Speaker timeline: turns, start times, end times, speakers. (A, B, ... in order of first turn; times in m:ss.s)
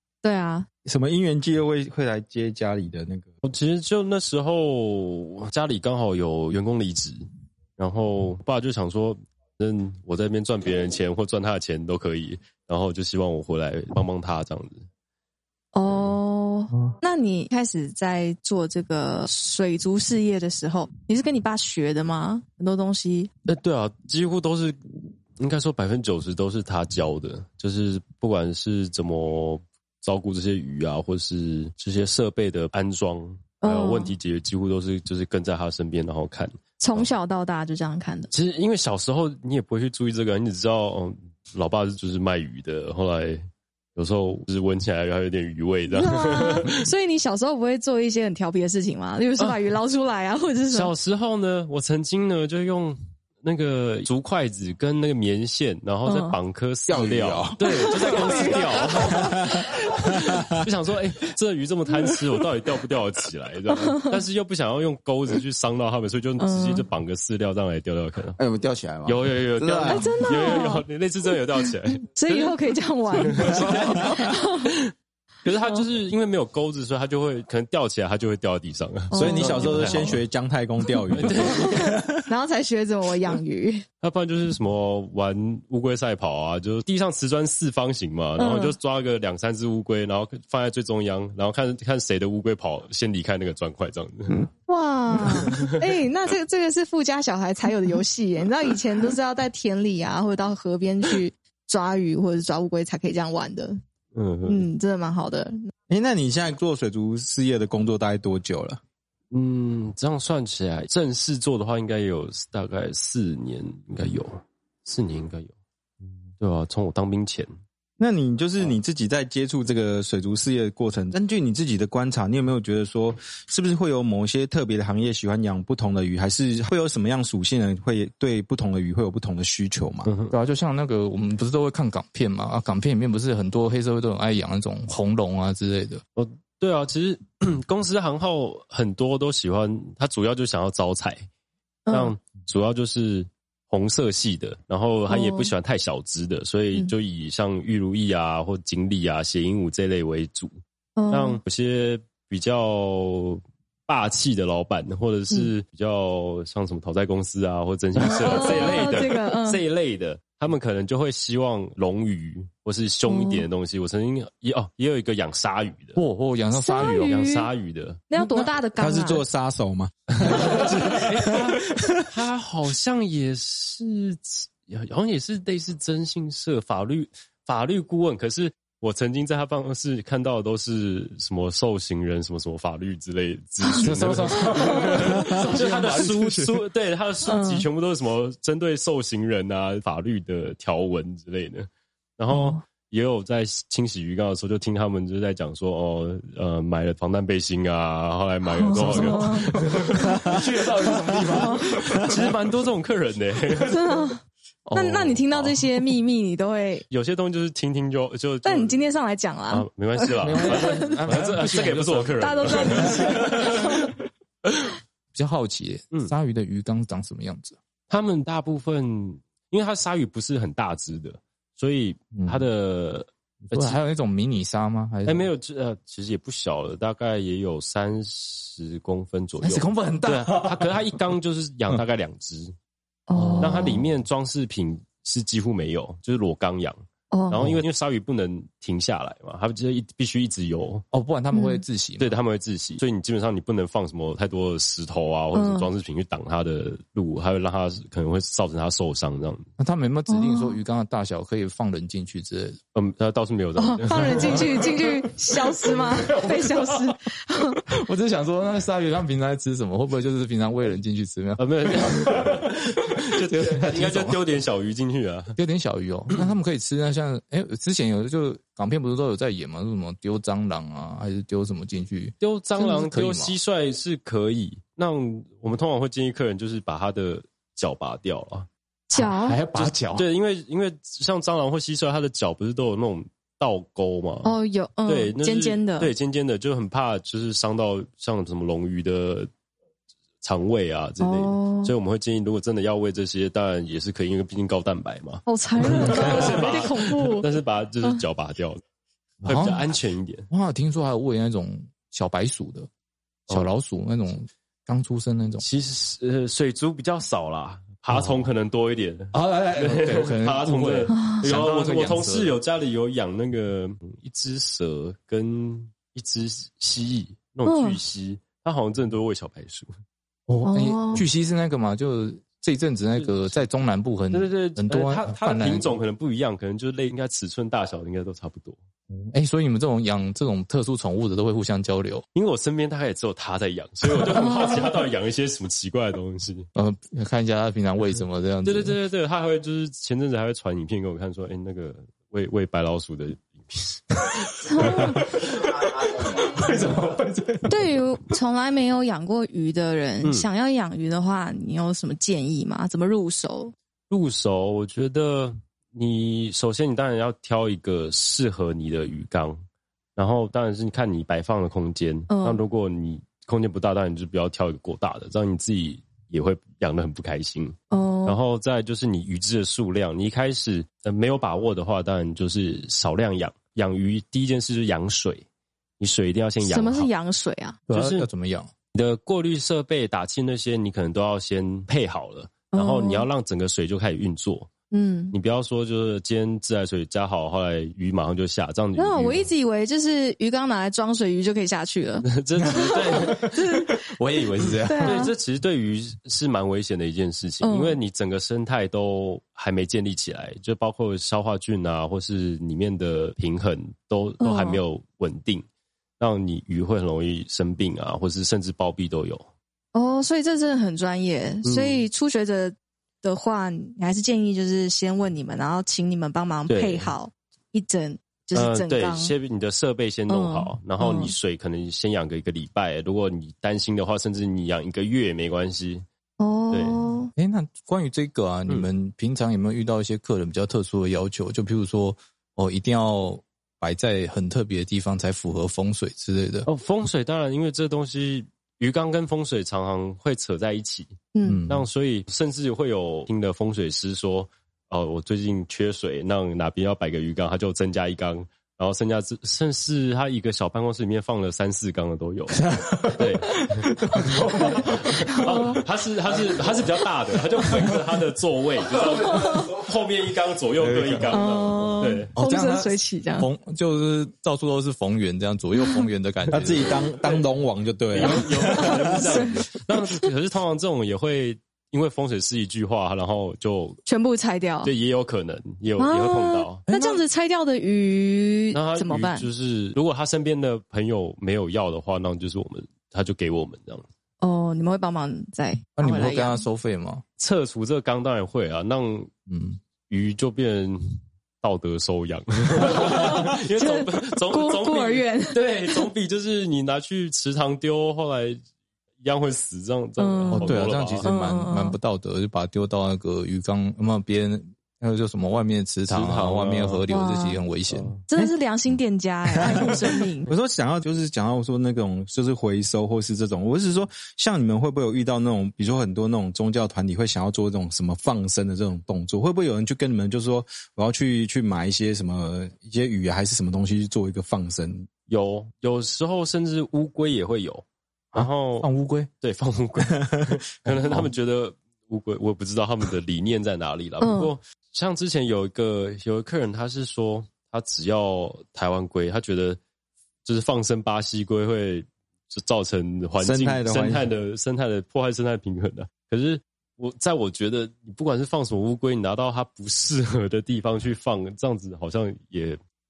0:00.2-0:00.7 A
0:00.8-0:03.3 B
0:03.4-0:07.2 C
0:07.8-0:14.8 C
0:15.7-0:23.3 A
0:23.5-0:24.8 C
0:25.4-0:37.1 C
0:33.6-0:34.1 A
0:36.8-0:38.3 A
0:38.3-0:43.4 C
0:44.0-0:46.9 C
0:45.9-0:50.9 A
0:49.4-0:49.7 C
0:50.7-1:08.4 C
0:56.0-0:56.4 A
0:56.9-0:59.6 D
0:57.8-0:58.2 A
1:03.8-1:04.1 A
1:06.4-1:06.9 A
1:08.4-1:10.1 D
1:09.0-1:12.6 C
1:09.8-1:10.8 A
1:12.1-1:14.7 A
1:13.1-1:14.8 C
1:15.4-1:20.2 C
1:19.1-1:20.1 A
1:19.1-1:21.8 B
1:21.1-1:21.9 C
1:21.4-1:23.8 A
1:24.0-1:34.5 C
1:28.4-1:28.8 A
1:34.7-1:43.8 A
1:35.4-1:35.7 C
1:44.1-1:44.7 C
1:44.4-1:45.7 A
1:45.9-1:48.8 B
1:49.3-1:55.5 C
1:56.4-1:57.5 C
1:58.0-2:10.1 B
2:10.0-2:10.3 C
2:10.3-2:16.0 E
2:16.2-2:21.2 C
2:21.9-2:22.2 A
2:21.9-2:30.5 C
2:25.1-2:25.5 A
2:31.0-2:31.4 A
2:31.1-2:46.0 C
2:38.0-2:39.6 A
2:43.0-2:43.5 A
2:45.9-2:47.3 E
2:46.5-2:47.5 A
2:46.8-2:48.5 C
2:48.1-2:49.2 A
2:48.8-2:51.9 B
2:50.2-3:20.4 C
3:03.6-3:03.9 A
3:03.8-3:06.6 E
3:04.5-3:05.1 A
3:07.2-3:07.6 A
3:12.3-3:12.6 A
3:18.5-3:20.2 A
3:18.6-3:22.3 E
3:21.1-3:21.8 A
3:21.7-3:23.8 C
3:23.6-3:24.2 A
3:24.6-3:25.5 E
3:24.7-3:26.8 A
3:26.9-3:28.8 C
3:28.4-3:31.2 A
3:29.5-3:33.6 C
3:30.2-3:33.5 E
3:32.2-3:33.9 A
3:35.1-3:37.6 E
3:37.9-3:43.8 C
3:42.2-3:42.5 E
3:43.5-3:45.3 E
3:45.0-3:52.5 C
3:49.4-3:50.8 E
3:53.1-3:53.7 A
3:53.1-3:53.8 E
3:53.4-4:00.8 C
3:57.1-3:57.5 A
4:00.9-4:02.1 E
4:01.3-4:01.6 A
4:02.0-4:09.4 C
4:05.3-4:05.7 A
4:09.6-4:12.6 E
4:10.1-4:10.6 A
4:12.7-4:14.5 C
4:13.6-4:17.6 A
4:13.9-4:14.7 E
4:15.5-4:16.7 E
4:17.7-4:22.3 E
4:21.4-4:25.3 C
4:23.2-4:24.2 E
4:25.4-4:33.4 E
4:32.2-4:38.5 C
4:38.9-4:39.4 A
4:38.9-4:40.1 E
4:39.5-4:49.3 C
4:44.2-4:45.9 A
4:50.2-4:58.6 C
4:51.0-4:51.7 A
4:55.2-4:57.3 A
4:55.7-4:56.2 E
4:59.2-4:59.6 E
4:59.2-5:00.3 C
5:00.3-5:02.7 E
5:03.3-5:05.4 E
5:05.4-5:19.7 C
5:07.9-5:08.2 E
5:09.1-5:12.4 E
5:10.9-5:11.2 A
5:17.4-5:17.8 A
5:20.3-5:25.7 E
5:20.4-5:21.0 A
5:22.9-5:23.5 C
5:24.1-5:28.6 C
5:28.9-5:32.0 E
5:32.1-5:36.5 C
5:34.2-5:34.6 A
5:36.6-5:38.8 E
5:38.4-5:43.8 C
5:44.4-5:45.0 A
5:45.4-5:47.7 E
5:47.5-5:53.5 A
5:53.9-5:59.4 C
6:00.0-6:15.2 C
6:02.1-6:02.4 A
6:07.7-6:08.2 A
6:15.8-6:16.9 C
6:16.4-6:17.6 A
6:17.7-6:18.5 E
6:17.7-6:18.1 C
6:18.7-6:24.5 C
6:22.5-6:23.1 A
6:24.7-6:25.2 A
6:25.1-6:29.3 C
6:28.8-6:33.7 A
6:32.0-6:33.4 C
6:32.4-6:35.1 E
6:34.6-6:35.1 A
6:34.8-6:45.4 C
6:37.4-6:37.8 A
6:44.2-6:44.6 A
6:46.0-6:49.2 C
6:49.7-6:59.1 A
6:51.4-6:51.8 C
6:56.5-6:56.9 C
6:58.3-7:05.8 C
7:00.1-7:01.1 A
7:06.2-7:07.1 A
7:06.5-7:06.8 C
7:07.2-7:16.5 E
7:16.4-7:21.0 C
7:21.1-7:21.4 A
7:21.2-7:21.7 E
7:21.5-7:32.4 C
7:32.4-7:34.6 E
7:33.0-7:42.1 C
7:35.1-7:35.6 A
7:38.8-7:39.5 A
7:40.6-7:46.8 E
7:41.1-7:43.3 A
7:45.6-7:45.9 A
7:46.3-7:49.0 B
7:46.4-7:47.3 C
7:47.9-7:53.8 C
7:48.5-7:49.5 A
7:53.8-7:54.7 A
7:54.6-7:56.6 C
7:55.8-7:59.3 A
7:56.7-7:57.0 E
7:58.5-8:03.8 C
8:04.2-8:06.4 A
8:05.8-8:07.0 E
8:07.2-8:09.1 C
8:09.3-8:09.6 E
8:09.9-8:18.4 C
8:12.8-8:15.9 A
8:19.0-8:21.1 C
8:20.0-8:21.8 A
8:20.3-8:27.9 E
8:25.8-8:26.8 C
8:26.9-8:27.4 A
8:27.7-8:28.0 C
8:28.1-8:30.3 A
8:29.4-8:44.9 B
8:45.1-8:48.7 C
8:48.1-8:49.1 E
8:49.2-8:59.6 C
8:50.6-8:51.1 E
8:54.0-8:54.3 A
9:00.2-9:12.6 C
9:03.2-9:04.1 B